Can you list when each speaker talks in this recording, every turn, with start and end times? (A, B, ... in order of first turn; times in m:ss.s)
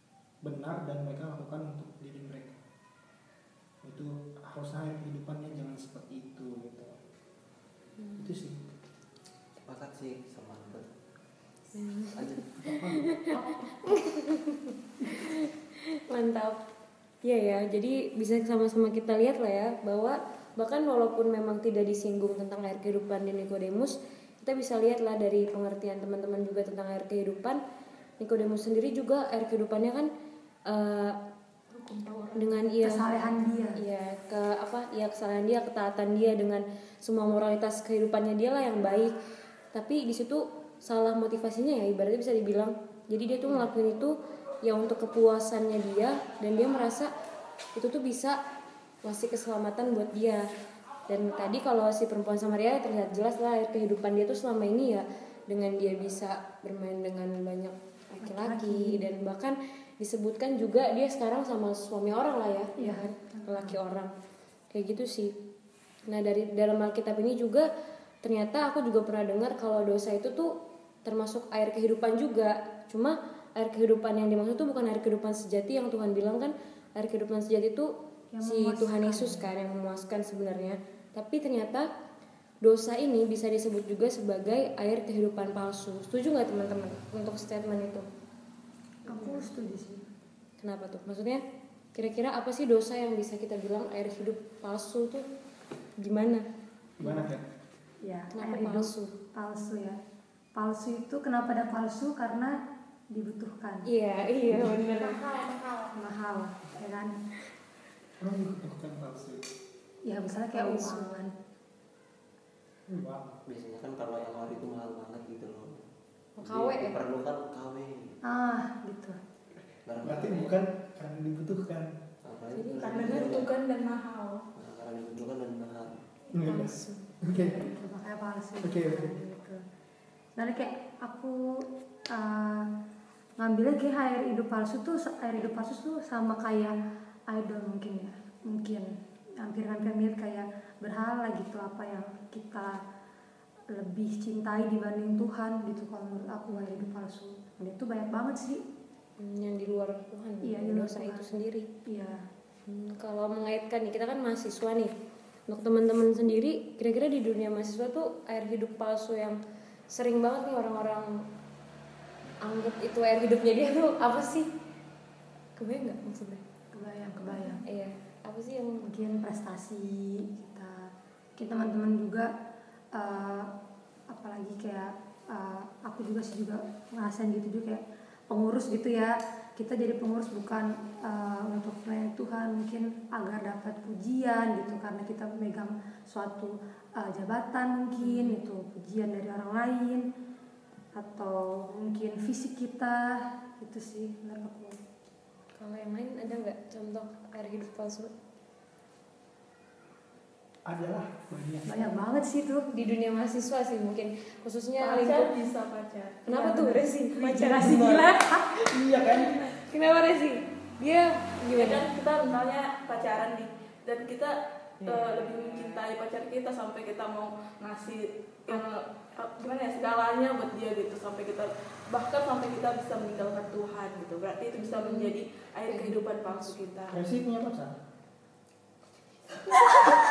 0:00.4-0:02.6 A
0:03.8-0:07.0 A
0:08.0-0:08.4 B
0:08.2-0:08.7 A
0:09.6-0:10.9 C
0:11.8-0:12.4 B
0:12.1-0:12.5 C
0:12.6-0:13.1 A
0:13.0-0:15.5 B
0:13.4-0:13.6 D
0:16.1-0:16.6 B
0:17.2-0:27.6 B
0:28.2-0:30.1 B
0:30.7-0:31.2 B
0:31.7-0:32.5 E
0:32.4-0:33.1 B
0:32.8-0:33.8 D
0:33.8-0:39.1 B
0:39.7-0:47.1 B
0:47.8-0:48.4 B
0:49.0-0:50.4 B
0:51.1-1:04.1 B
0:58.2-0:59.0 D
1:02.8-1:03.8 D
1:04.7-1:05.3 B
1:06.1-1:07.7 B
1:08.2-1:10.5 B
1:11.0-1:21.9 B
1:18.3-1:19.5 D
1:22.6-1:28.1 B
1:29.1-1:30.1 D
1:29.1-1:29.5 B
1:30.6-1:31.4 B
1:32.0-1:35.2 B
1:36.0-1:36.4 B
1:37.0-1:37.4 A
1:38.0-1:40.0 D
1:38.3-1:39.1 B
1:40.6-1:42.6 D
1:43.1-1:43.9 D
1:43.9-1:45.2 B
1:44.5-1:47.1 D
1:48.2-1:49.5 A
1:50.1-1:51.3 D
1:50.3-1:51.2 B
1:52.9-1:53.4 A
1:53.5-1:55.8 C
1:56.4-1:57.0 B
1:56.4-1:58.2 C
1:58.2-1:59.2 D
1:59.9-2:00.6 C
2:00.0-2:01.9 A
2:02.2-2:03.5 C
2:02.7-2:04.4 E
2:04.6-2:06.0 C
2:06.3-2:07.6 A
2:06.5-2:07.1 B
2:07.4-2:09.6 D
2:08.6-2:09.1 A
2:10.4-2:12.7 D
2:13.4-2:16.8 D
2:17.3-2:22.8 D
2:23.7-2:28.6 D
2:26.5-2:27.0 B
2:29.2-2:31.7 B
2:30.4-2:31.3 D
2:31.9-2:32.2 D
2:32.7-2:34.9 B
2:35.5-2:39.4 B
2:39.9-2:41.2 B
2:42.4-2:44.5 B
2:45.6-2:46.4 B
2:46.7-2:47.6 D
2:47.6-2:48.9 B
2:48.8-2:52.3 D
2:52.9-2:53.5 D
2:54.1-3:10.1 D
3:08.0-3:08.4 B
3:11.0-3:14.8 D
3:15.6-3:18.1 B
3:20.6-3:22.0 A
3:21.7-3:22.7 D
3:22.7-3:25.3 B
3:24.9-3:26.2 E
3:26.2-3:27.7 B
3:26.3-3:28.5 D
3:27.6-3:29.4 A
3:29.5-3:31.8 B
3:31.6-3:47.0 E
3:44.6-3:45.1 B
3:45.7-3:46.6 B
3:46.9-3:47.8 A